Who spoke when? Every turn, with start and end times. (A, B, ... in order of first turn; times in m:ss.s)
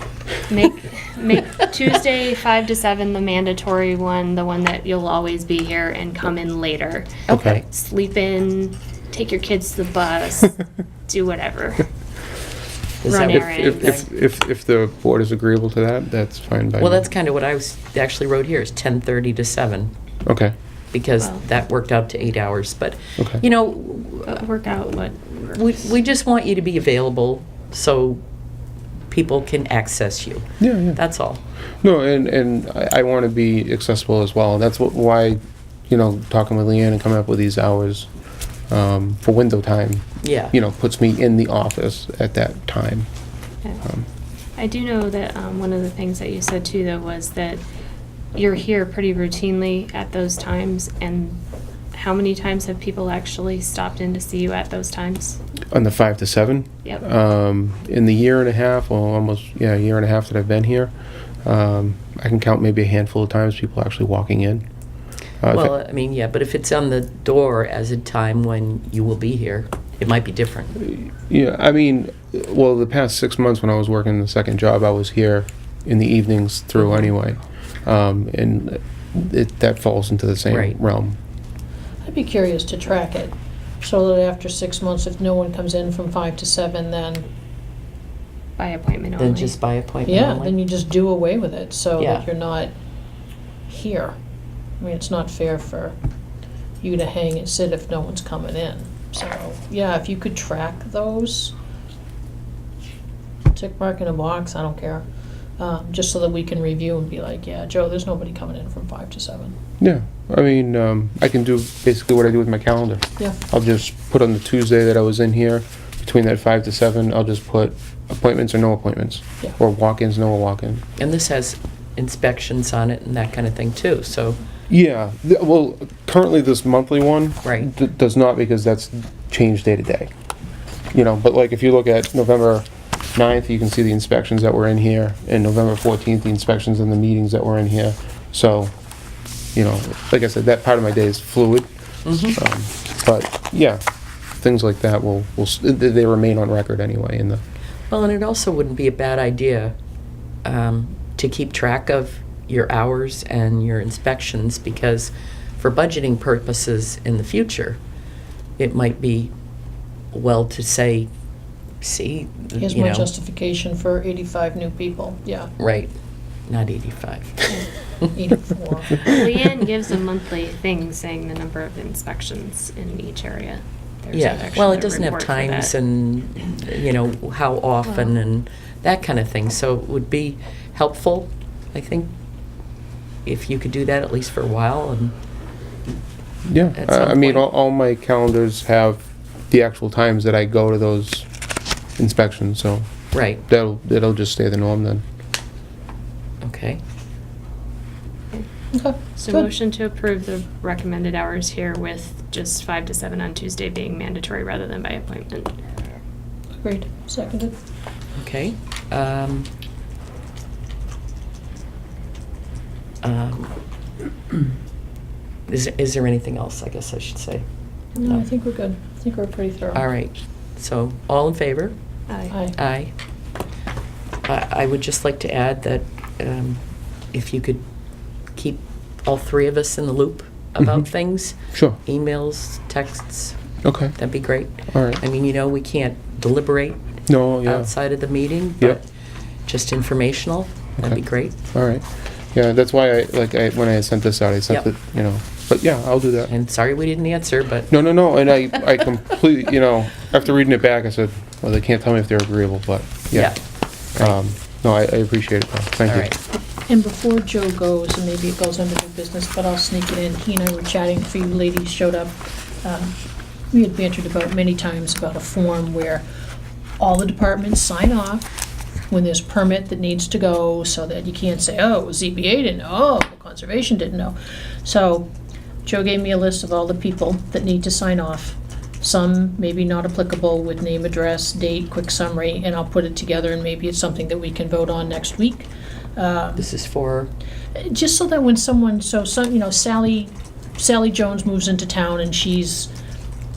0:00.5-0:11.9 A
0:07.3-0:07.6 B
0:07.3-0:07.6 C
0:13.0-0:14.1 B
0:13.1-0:13.7 A
0:13.1-0:17.1 C
0:16.8-0:19.9 B
0:20.3-0:20.5 C
0:20.9-0:24.5 B
0:21.2-0:21.6 A
0:24.3-0:25.9 A
0:25.4-0:28.2 B
0:29.1-0:31.4 B
0:30.6-0:31.0 C
0:31.8-0:38.1 C
0:38.7-0:43.1 C
0:40.2-0:40.5 B
0:43.8-0:44.1 C
0:44.6-0:47.6 A
0:48.4-0:51.4 A
0:51.9-0:55.4 A
0:55.7-1:00.9 C
1:01.4-1:04.6 C
1:05.4-1:05.8 C
1:05.5-1:10.7 B
1:10.8-1:21.2 C
1:20.5-1:20.8 B
1:22.0-1:27.2 D
1:28.6-1:29.6 A
1:29.2-1:30.6 B
1:30.0-1:32.7 D
1:32.0-1:32.3 B
1:33.7-1:34.2 D
1:34.8-1:36.0 D
1:36.8-1:41.5 D
1:43.5-1:45.0 D
1:45.6-1:49.6 D
1:49.8-2:00.8 C
2:01.0-2:04.4 B
2:04.7-2:10.1 C
2:07.4-2:07.7 B
2:10.9-2:18.7 C
2:19.6-2:23.8 C
2:22.1-2:22.4 B
2:24.4-2:27.4 C
2:27.9-2:29.8 B
2:30.4-2:37.8 B
2:38.6-2:39.3 B
2:40.1-2:41.1 B
2:41.8-2:43.1 B
2:42.6-2:45.5 D
2:45.6-2:45.9 B
2:46.5-2:47.5 B
2:48.1-2:49.1 D
2:49.0-2:55.7 A
2:54.1-3:02.1 B
2:57.9-2:58.1 A
3:03.3-3:05.1 B
3:06.5-3:11.3 C
3:06.8-3:07.5 B
3:12.0-3:12.9 C
3:13.1-3:13.4 B
3:13.5-3:15.0 C
3:16.4-3:16.8 B
3:18.7-3:19.5 D
3:19.2-3:25.6 A
3:26.6-3:27.6 D
3:28.2-3:29.5 B
3:33.0-3:33.5 B
3:35.5-3:37.4 B
3:38.0-3:39.8 D
3:39.8-3:41.8 B
3:42.1-3:42.4 A
3:42.5-3:42.9 B
3:44.2-3:46.6 B
3:47.1-3:47.6 B
3:48.4-3:53.4 B
3:50.6-3:50.9 C
3:51.5-3:51.8 C
3:53.6-3:54.0 C
3:54.0-3:56.8 B
3:54.7-3:55.0 C
3:57.1-3:57.7 C
3:57.4-3:58.9 B
3:59.5-4:01.4 B
4:01.5-4:06.3 C
4:06.3-4:07.7 B
4:07.7-4:13.4 C
4:13.1-4:13.4 B
4:14.0-4:16.1 C
4:15.9-4:16.2 B
4:16.7-4:23.0 D
4:23.5-4:26.0 D
4:26.8-4:28.3 D
4:28.9-4:35.1 D
4:35.6-4:46.5 D
4:46.4-4:47.1 B
4:47.6-4:52.7 D